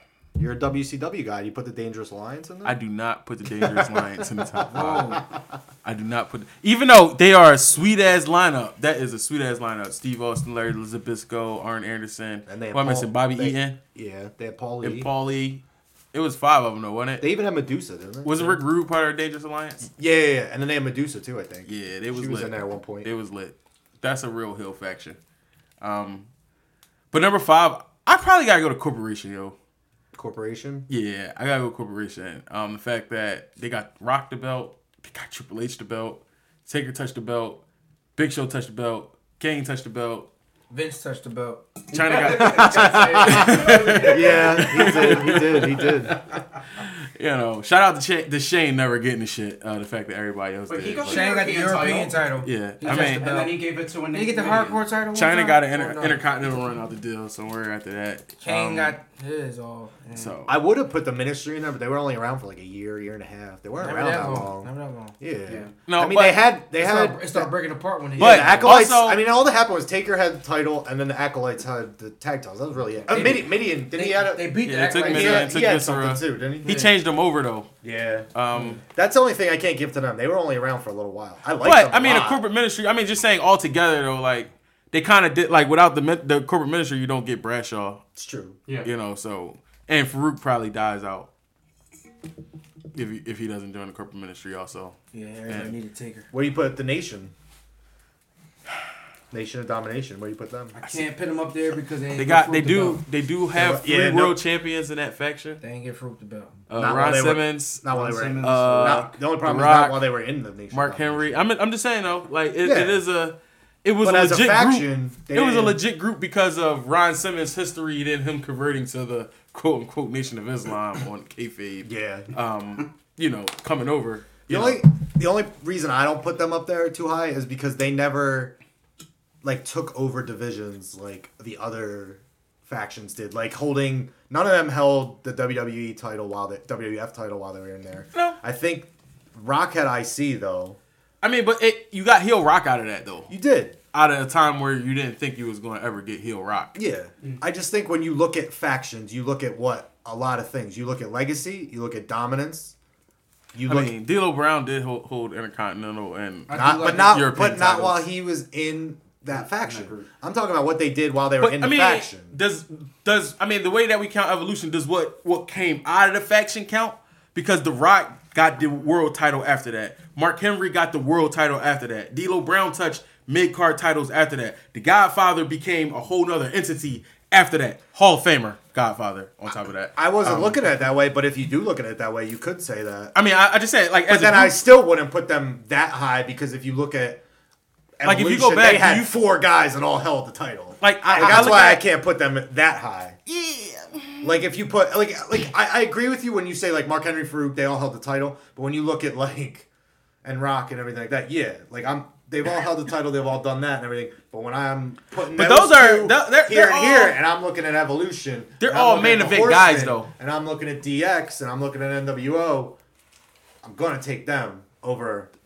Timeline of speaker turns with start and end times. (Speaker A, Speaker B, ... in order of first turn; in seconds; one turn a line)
Speaker A: 0.4-2.8
Speaker B: 2.6-5.1
Speaker A: 3.6-5.3
Speaker C: 4.7-5.2
Speaker B: 5.8-13.8
Speaker A: 12.5-15.1
Speaker B: 14.8-15.6
Speaker B: 16.1-17.3
Speaker A: 17.2-18.6
Speaker B: 18.2-19.9
Speaker A: 20.0-23.1
Speaker B: 21.7-25.2
Speaker B: 25.8-26.3
Speaker B: 27.1-29.6
Speaker A: 30.1-30.9
Speaker B: 30.9-37.6
Speaker B: 38.2-40.3
Speaker C: 40.7-42.2
Speaker B: 41.9-51.2
Speaker D: 41.9-45.0
Speaker A: 42.4-46.2
Speaker D: 50.7-52.2
Speaker C: 51.0-53.5
Speaker B: 52.4-53.3
Speaker D: 52.8-54.8
Speaker C: 54.1-56.2
Speaker B: 55.1-59.0
Speaker C: 58.4-60.4
Speaker B: 60.1-60.5
Speaker A: 60.5-67.5
Speaker C: 63.8-65.2
Speaker D: 65.5-65.8
Speaker B: 65.9-66.5
Speaker C: 66.8-68.8
Speaker A: 68.2-76.9
Speaker B: 68.2-69.2
Speaker C: 73.1-75.5
Speaker B: 74.6-77.7
Speaker A: 77.8-78.3
Speaker B: 78.3-78.8
Speaker A: 78.8-82.4
Speaker B: 81.6-88.0
Speaker A: 88.2-88.6
Speaker B: 88.8-91.3
Speaker B: 92.9-95.0
Speaker C: 95.1-96.3
Speaker B: 95.5-95.7
Speaker A: 96.3-97.3
Speaker A: 99.3-100.8
Speaker C: 100.8-103.0
Speaker B: 100.8-101.1
Speaker B: 102.2-105.6
Speaker A: 103.5-104.4
Speaker C: 105.6-106.6
Speaker B: 106.7-110.1
Speaker A: 106.7-111.5
Speaker D: 107.9-109.2
Speaker B: 110.7-124.8
Speaker A: 112.6-113.0
Speaker A: 114.0-115.8
Speaker A: 121.8-122.3
Speaker A: 124.5-128.6
Speaker A: 129.4-140.8
Speaker B: 141.2-143.3
Speaker A: 143.3-143.8
Speaker B: 143.9-146.8
Speaker A: 146.8-152.8
Speaker A: 153.5-153.9
Speaker B: 153.7-158.1
Speaker C: 156.5-157.2
Speaker A: 156.5-162.3
Speaker D: 159.3-160.1
Speaker B: 161.4-180.6
Speaker A: 180.0-183.1
Speaker B: 183.2-184.6
Speaker A: 184.1-187.2
Speaker A: 188.0-193.2
Speaker B: 188.0-189.1
Speaker B: 190.8-191.8
Speaker B: 193.3-194.3
Speaker A: 194.2-199.7
Speaker A: 200.2-212.8
Speaker B: 205.3-207.2
Speaker B: 208.6-210.1
Speaker A: 213.6-215.3